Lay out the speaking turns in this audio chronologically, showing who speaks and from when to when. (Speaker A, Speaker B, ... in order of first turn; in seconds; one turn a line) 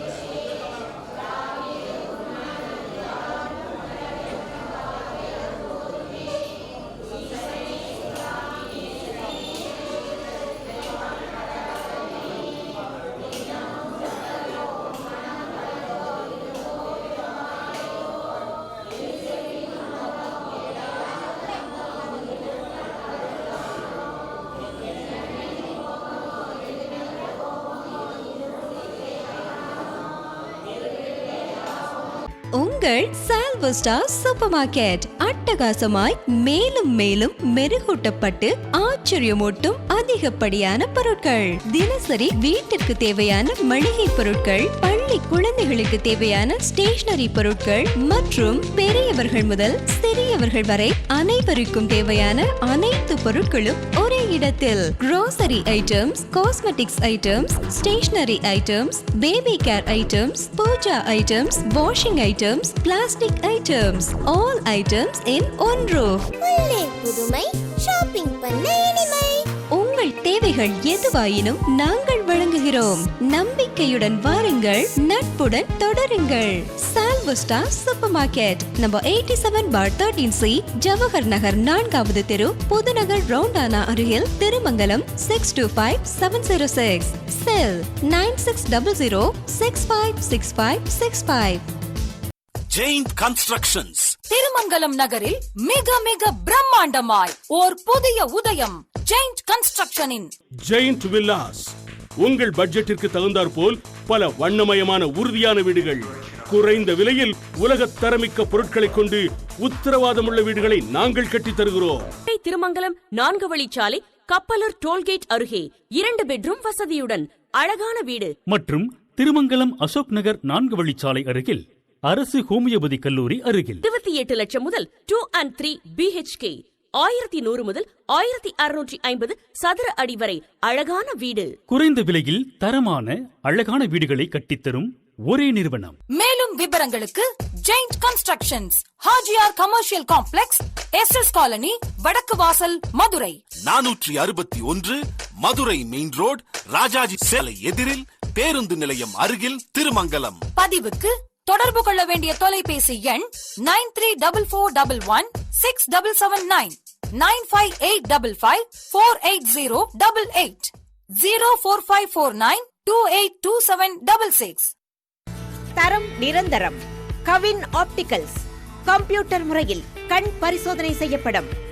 Speaker A: 32.5-66.2
Speaker B: 66.4-69.4
Speaker A: 69.7-91.6
Speaker C: 92.7-94.1
Speaker D: 94.3-100.3
Speaker E: 100.7-112.1
Speaker F: 112.3-118.3
Speaker G: 118.5-123.8
Speaker F: 123.8-131.5
Speaker G: 131.7-136.0
Speaker D: 136.1-143.4
Speaker C: 143.6-150.4
Speaker D: 150.6-164.7
Speaker H: 165.8-171.5